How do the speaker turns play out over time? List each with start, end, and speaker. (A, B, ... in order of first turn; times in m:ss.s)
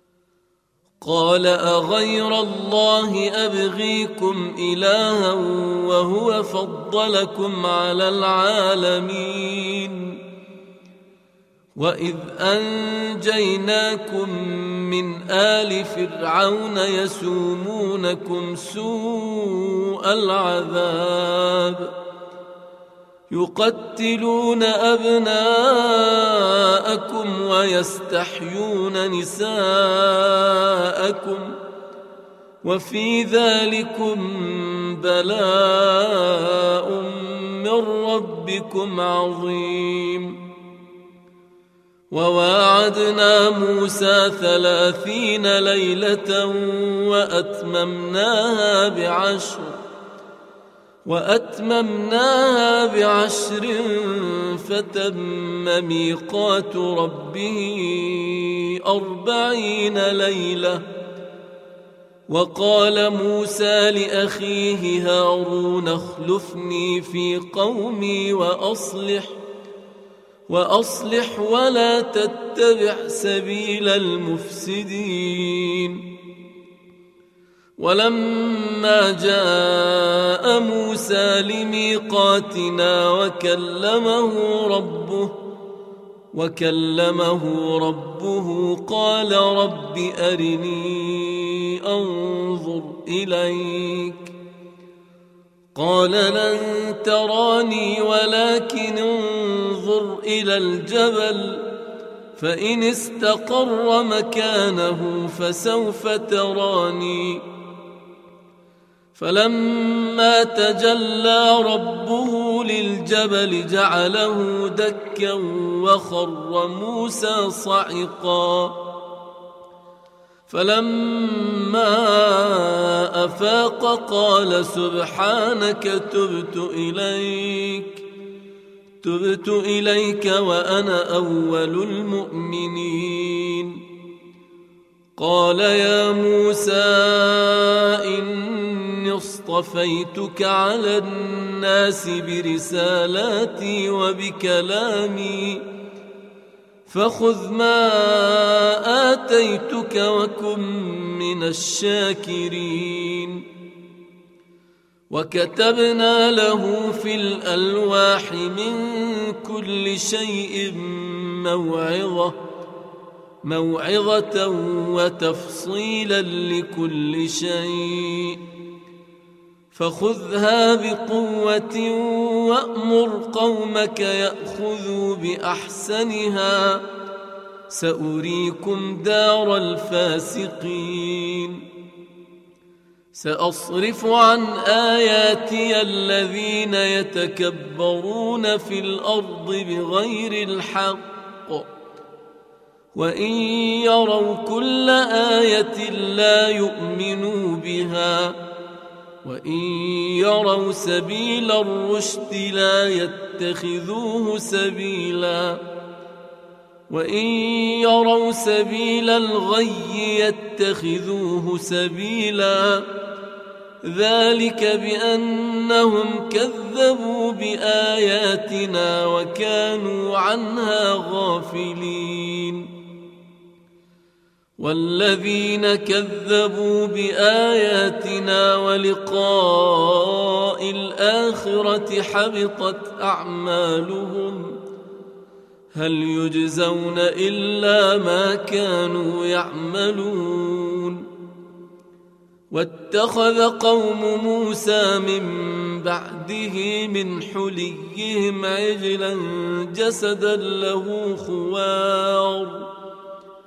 0:01.0-0:10.2 A
0:11.8-0:21.9 A
0:23.3-0:31.6 A
0:32.6-0:40.4 A
0:42.1-0:49.8 A
0:51.1-1:00.8 A
1:02.3-1:09.4 A
1:10.5-1:16.1 A
1:17.8-1:25.4 A
1:26.3-1:34.3 A
1:35.8-1:41.7 A
1:42.4-1:47.4 A
1:49.2-1:58.8 A
2:00.5-2:08.0 A
2:09.0-2:13.8 A
2:15.2-2:25.6 A
2:26.9-2:33.4 A
2:35.1-2:42.4 A
2:43.4-2:48.4 A
2:49.7-2:56.8 A
2:57.7-3:01.6 A
3:03.2-3:11.7 A
3:12.9-3:18.4 A
3:19.2-3:25.6 A
3:26.9-3:32.9 A
3:33.8-3:42.7 A
3:44.6-3:54.6 A
3:55.7-4:01.1 A
4:02.5-4:12.7 A